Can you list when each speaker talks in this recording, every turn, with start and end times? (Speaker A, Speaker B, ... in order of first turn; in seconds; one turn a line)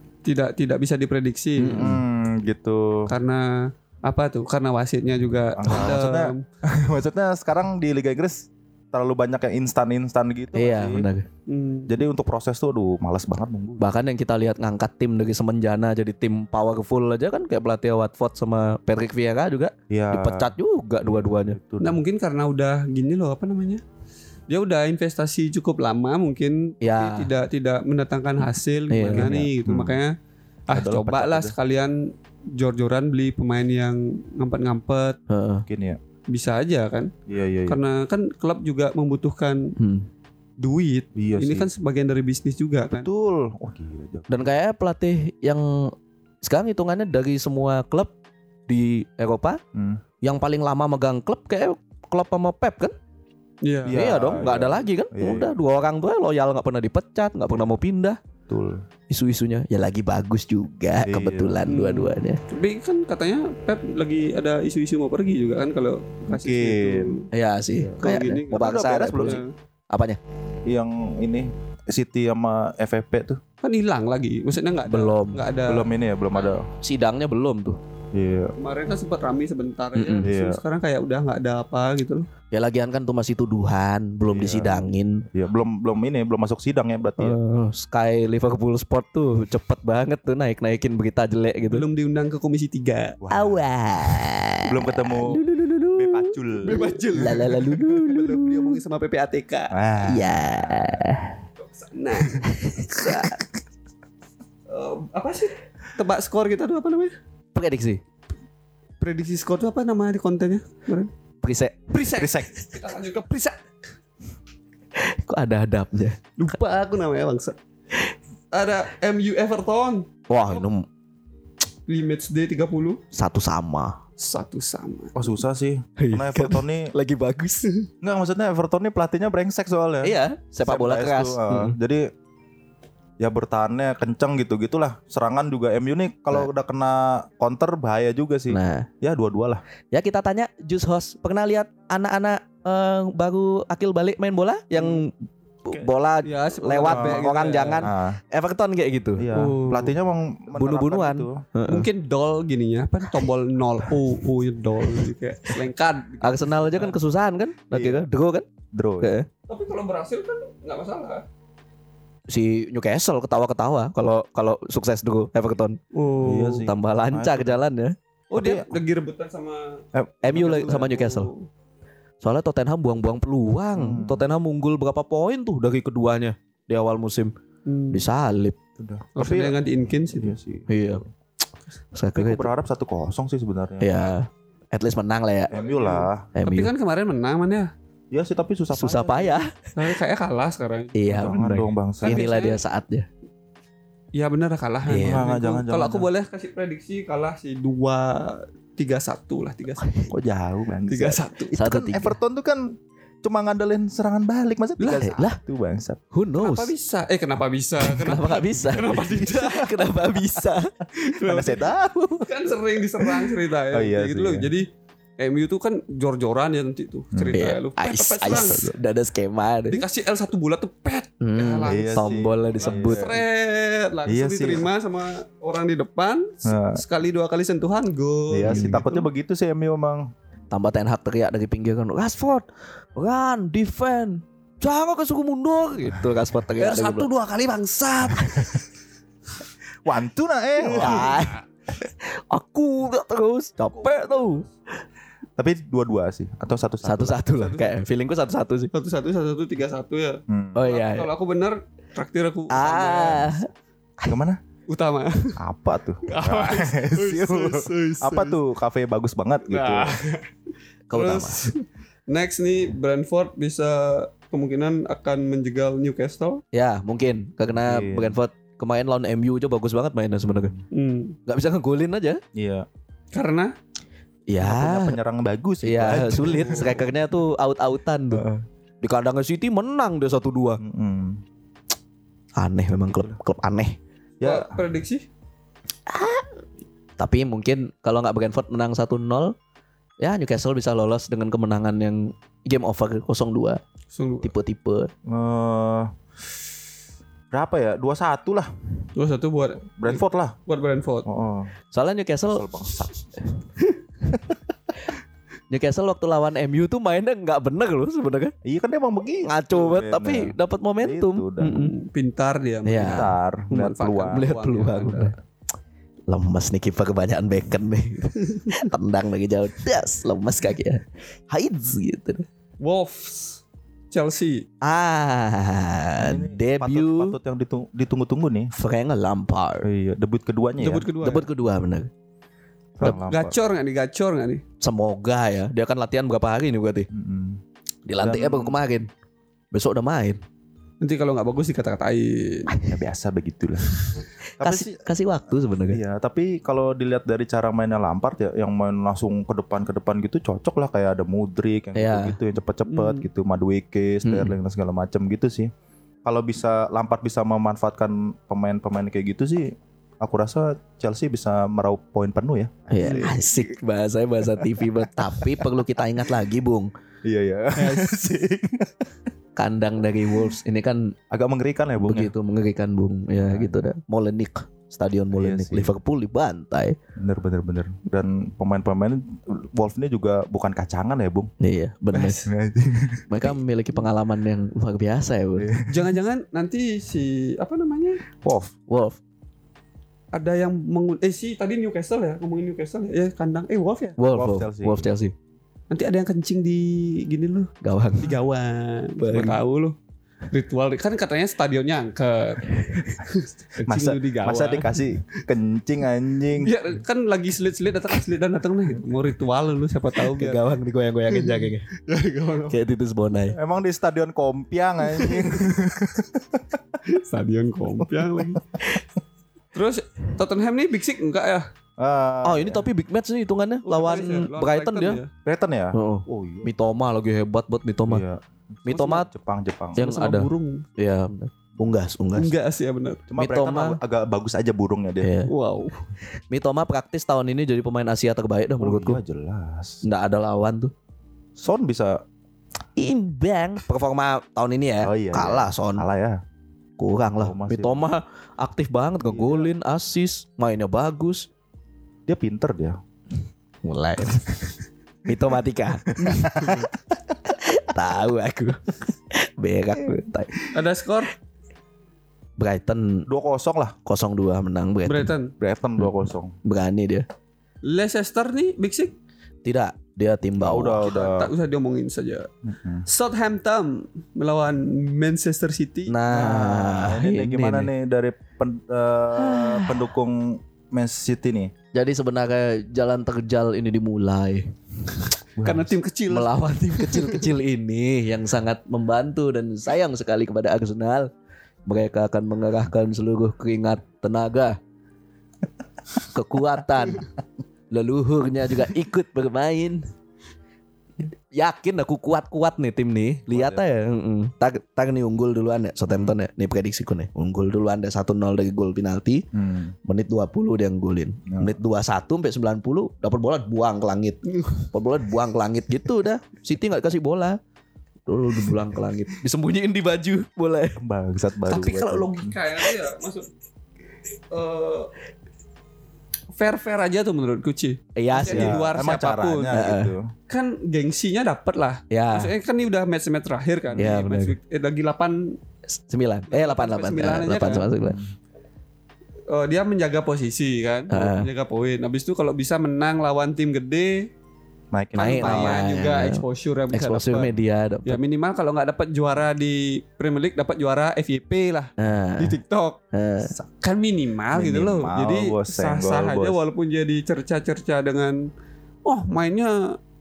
Speaker A: 0.2-1.9
Speaker B: 1.6-2.0
Speaker C: 1.7-3.1
Speaker A: 3.1-6.4
Speaker C: 5.5-11.1
Speaker B: 10.5-11.2
Speaker A: 11.5-11.9
Speaker C: 11.9-13.9
Speaker B: 13.8-21.6
Speaker C: 19.9-22.0
Speaker A: 21.8-23.8
Speaker A: 24.5-30.1
Speaker B: 26.8-27.3
Speaker B: 28.9-29.3
Speaker C: 29.1-30.0
Speaker A: 30.7-35.2
Speaker C: 30.7-31.5
Speaker B: 35.3-35.6
Speaker C: 35.7-36.0
Speaker A: 36.3-37.1
Speaker C: 37.3-37.8
Speaker A: 37.7-39.7
Speaker B: 39.8-40.1
Speaker A: 40.6-43.1
Speaker C: 41.1-41.7
Speaker C: 42.9-44.4
Speaker B: 44.3-48.1
Speaker B: 48.7-49.6
Speaker C: 49.7-50.0
Speaker B: 50.2-52.9
Speaker A: 53.6-54.0
Speaker C: 53.8-55.5
Speaker B: 53.9-58.2
Speaker C: 58.5-58.8
Speaker B: 59.1-62.4
Speaker C: 61.0-61.6
Speaker A: 61.7-67.3
Speaker C: 66.3-67.2
Speaker B: 67.3-70.2
Speaker A: 68.0-69.5
Speaker C: 68.5-69.4
Speaker C: 70.7-73.4
Speaker A: 73.6-76.6
Speaker B: 74.9-75.4
Speaker C: 75.7-76.7
Speaker B: 76.8-77.8
Speaker C: 78.1-78.5
Speaker A: 78.6-82.3
Speaker B: 80.0-80.3
Speaker C: 80.2-80.6
Speaker B: 82.5-85.2
Speaker C: 84.3-87.4
Speaker B: 87.2-91.8
Speaker A: 91.7-93.2
Speaker C: 93.2-93.6
Speaker B: 93.3-98.8
Speaker C: 94.7-96.8
Speaker A: 96.6-99.8
Speaker C: 99.7-101.0
Speaker B: 100.0-101.4
Speaker A: 101.6-103.3
Speaker B: 102.5-103.4
Speaker A: 104.7-107.1
Speaker B: 107.5-108.0
Speaker A: 109.0-111.1
Speaker B: 111.4-111.8
Speaker A: 111.9-113.6
Speaker C: 112.1-112.5
Speaker B: 115.0-116.4
Speaker A: 116.4-117.6
Speaker A: 118.5-120.6
Speaker B: 120.3-120.9
Speaker A: 121.9-123.0
Speaker B: 123.1-124.0
Speaker A: 124.2-125.2
Speaker C: 125.1-126.9
Speaker B: 126.0-127.7
Speaker C: 128.0-132.0
Speaker B: 130.0-131.8
Speaker C: 133.2-139.6
Speaker B: 138.5-138.9
Speaker B: 139.9-145.1
Speaker A: 144.7-145.0
Speaker B: 145.6-149.3
Speaker A: 146.2-147.9
Speaker C: 146.8-147.2
Speaker C: 147.8-148.2
Speaker C: 149.2-151.4
Speaker A: 149.3-149.9
Speaker B: 150.6-151.9
Speaker A: 151.7-157.0
Speaker B: 156.2-158.5
Speaker C: 157.7-158.1
Speaker C: 158.7-159.2
Speaker B: 159.0-159.3
Speaker A: 159.5-161.2
Speaker B: 162.3-165.8
Speaker A: 165.9-166.7
Speaker C: 166.2-167.6
Speaker B: 166.6-167.9
Speaker A: 168.3-171.5
Speaker C: 168.3-168.8
Speaker C: 169.9-170.8
Speaker B: 170.2-171.3
Speaker B: 172.2-177.3
Speaker C: 173.8-174.2
Speaker A: 177.7-178.0
Speaker B: 177.9-178.6
Speaker C: 178.8-179.6
Speaker A: 179.2-180.3
Speaker C: 180.1-180.8
Speaker B: 180.7-181.0
Speaker B: 181.9-182.5
Speaker C: 182.2-184.1
Speaker B: 183.8-185.5
Speaker C: 185.5-186.3
Speaker A: 185.5-187.7
Speaker B: 186.3-186.7
Speaker C: 188.1-189.4
Speaker B: 188.7-189.5
Speaker A: 189.8-191.3
Speaker B: 190.9-193.1
Speaker C: 191.1-192.2
Speaker A: 192.0-192.6
Speaker A: 194.1-199.9
Speaker B: 194.8-195.2
Speaker C: 195.0-196.1
Speaker B: 199.8-200.1
Speaker C: 200.1-206.0
Speaker A: 200.9-201.5
Speaker B: 201.5-202.1
Speaker A: 204.8-205.1
Speaker B: 205.0-205.4
Speaker B: 206.1-206.7
Speaker A: 206.4-210.1
Speaker B: 207.8-210.7
Speaker A: 211.0-214.7
Speaker C: 211.2-212.3
Speaker C: 213.0-214.5
Speaker A: 215.2-218.6
Speaker C: 217.1-217.4
Speaker B: 217.3-219.8
Speaker C: 218.3-218.7
Speaker A: 219.7-222.1
Speaker B: 221.2-223.1
Speaker C: 221.6-223.2
Speaker A: 222.6-229.1
Speaker C: 224.1-224.7
Speaker C: 226.4-226.8
Speaker C: 228.3-230.1
Speaker B: 228.4-228.8
Speaker B: 230.5-237.1
Speaker A: 236.6-238.6
Speaker C: 239.8-241.2
Speaker B: 240.6-244.4
Speaker A: 240.7-241.4
Speaker A: 243.7-244.5
Speaker C: 245.4-247.2
Speaker B: 246.8-248.7
Speaker A: 247.3-247.8
Speaker A: 248.7-253.4
Speaker C: 250.3-250.6
Speaker B: 250.5-251.1
Speaker B: 252.5-253.5
Speaker C: 254.0-254.4
Speaker A: 254.7-255.4
Speaker C: 255.4-260.0
Speaker A: 256.1-258.4
Speaker A: 259.5-260.2
Speaker B: 260.9-261.5
Speaker A: 260.9-266.4
Speaker B: 266.5-270.5
Speaker C: 267.5-268.2
Speaker C: 270.2-270.6
Speaker A: 270.7-271.2
Speaker B: 271.3-272.2
Speaker C: 272.3-272.7
Speaker A: 273.1-273.5
Speaker B: 274.3-275.0
Speaker C: 274.4-276.9
Speaker B: 275.6-278.2
Speaker C: 278.1-278.4
Speaker B: 278.8-280.6
Speaker C: 280.6-281.2
Speaker B: 282.4-283.8
Speaker C: 282.9-283.2
Speaker C: 284.2-284.6
Speaker A: 284.2-285.1
Speaker B: 285.9-286.2
Speaker B: 287.0-289.3
Speaker B: 290.0-293.6
Speaker A: 293.9-294.3
Speaker B: 294.2-294.9
Speaker C: 295.1-295.9
Speaker C: 297.3-298.5
Speaker A: 298.9-301.1
Speaker C: 299.8-300.4
Speaker C: 301.1-301.5
Speaker B: 301.7-302.5
Speaker C: 302.3-303.1
Speaker B: 305.5-308.3
Speaker C: 308.4-311.5
Speaker B: 309.2-311.7
Speaker A: 311.4-315.1
Speaker B: 312.6-313.1
Speaker C: 312.7-314.2
Speaker B: 314.1-315.1
Speaker B: 316.1-322.2
Speaker A: 322.6-324.4
Speaker B: 324.6-327.1
Speaker C: 326.0-328.5
Speaker B: 328.5-329.7
Speaker C: 329.6-330.9
Speaker A: 330.6-331.2
Speaker B: 331.0-331.9
Speaker C: 332.8-333.3
Speaker A: 332.8-334.4
Speaker B: 334.6-336.9
Speaker C: 336.9-337.4
Speaker B: 337.9-338.9
Speaker C: 338.0-338.6
Speaker B: 339.5-340.2
Speaker A: 340.8-342.5
Speaker C: 342.6-343.7
Speaker B: 344.4-345.8
Speaker C: 344.4-344.8
Speaker C: 345.7-355.5
Speaker B: 351.7-352.1
Speaker A: 352.6-353.1
Speaker B: 354.0-354.3
Speaker C: 356.0-363.6
Speaker B: 362.7-366.7
Speaker A: 362.8-363.1
Speaker C: 364.4-365.5
Speaker C: 367.0-368.9
Speaker B: 369.4-370.9
Speaker C: 371.1-372.1
Speaker B: 371.8-376.8
Speaker C: 373.2-373.6
Speaker C: 375.1-375.7
Speaker C: 377.0-381.3
Speaker B: 381.4-382.3
Speaker C: 381.9-383.4
Speaker B: 383.1-385.5
Speaker C: 385.4-386.0
Speaker A: 385.7-388.0
Speaker C: 388.2-388.5
Speaker B: 388.7-389.0
Speaker A: 390.1-394.0
Speaker B: 394.0-395.1
Speaker C: 394.1-394.9
Speaker A: 395.7-399.8
Speaker B: 397.6-398.1
Speaker B: 399.0-399.4
Speaker A: 400.3-404.8
Speaker C: 403.6-406.5
Speaker A: 406.4-410.4
Speaker B: 410.1-411.6
Speaker A: 411.1-412.6
Speaker B: 412.5-413.4
Speaker C: 413.3-416.8
Speaker A: 414.9-415.4
Speaker A: 416.9-418.5
Speaker C: 417.8-418.4
Speaker A: 419.5-421.5
Speaker C: 421.8-422.7
Speaker B: 422.2-425.0
Speaker A: 423.6-425.1
Speaker C: 425.2-426.5
Speaker B: 425.7-428.0
Speaker C: 427.9-428.2
Speaker B: 428.6-429.1
Speaker A: 428.7-429.0
Speaker C: 428.8-429.8
Speaker B: 429.8-432.3
Speaker A: 429.8-430.7
Speaker A: 432.1-433.0
Speaker C: 433.1-435.1
Speaker B: 433.2-433.8
Speaker B: 435.0-435.3
Speaker A: 435.3-435.8
Speaker B: 436.3-439.0
Speaker C: 438.6-439.8
Speaker B: 439.8-440.7
Speaker C: 441.4-442.0
Speaker B: 442.8-445.9
Speaker C: 444.8-446.2
Speaker B: 446.8-451.3
Speaker C: 447.2-447.9
Speaker C: 449.1-449.5
Speaker C: 452.1-452.8
Speaker B: 453.6-456.6
Speaker C: 456.0-456.7
Speaker B: 457.3-460.5
Speaker A: 460.5-461.1
Speaker B: 462.4-463.1
Speaker C: 463.1-463.8
Speaker B: 463.9-465.1
Speaker A: 464.9-465.3
Speaker C: 465.4-466.3
Speaker B: 466.4-467.0
Speaker A: 467.6-468.9
Speaker B: 469.4-470.8
Speaker C: 470.4-471.3
Speaker A: 470.8-472.3
Speaker C: 472.4-472.9
Speaker A: 472.9-475.9
Speaker B: 475.9-477.7
Speaker C: 476.1-481.5
Speaker B: 479.2-479.8
Speaker B: 481.7-484.5
Speaker C: 485.4-485.7
Speaker A: 485.4-487.2
Speaker B: 486.1-491.1
Speaker B: 491.6-494.6
Speaker B: 496.1-497.1
Speaker B: 497.7-499.9
Speaker B: 501.3-509.2
Speaker C: 503.3-503.6
Speaker C: 505.9-506.2
Speaker C: 509.3-509.7
Speaker B: 509.8-517.4
Speaker C: 511.3-511.6
Speaker A: 514.4-514.6
Speaker B: 518.0-520.8
Speaker C: 520.8-522.3
Speaker A: 521.5-523.3
Speaker A: 524.3-524.9
Speaker A: 526.3-529.5
Speaker B: 528.0-528.6
Speaker C: 528.3-530.1
Speaker B: 529.5-529.9
Speaker A: 530.3-535.4
Speaker B: 531.9-532.3
Speaker B: 533.8-534.4
Speaker B: 535.7-538.0
Speaker A: 536.3-537.7
Speaker C: 537.7-538.1
Speaker A: 539.3-544.1
Speaker B: 540.9-541.3
Speaker C: 544.7-545.6
Speaker A: 544.9-547.3
Speaker B: 545.0-548.0
Speaker A: 547.9-552.8
Speaker B: 551.8-552.4
Speaker B: 552.9-553.3
Speaker A: 553.6-558.2
Speaker C: 554.3-556.4
Speaker A: 558.8-559.8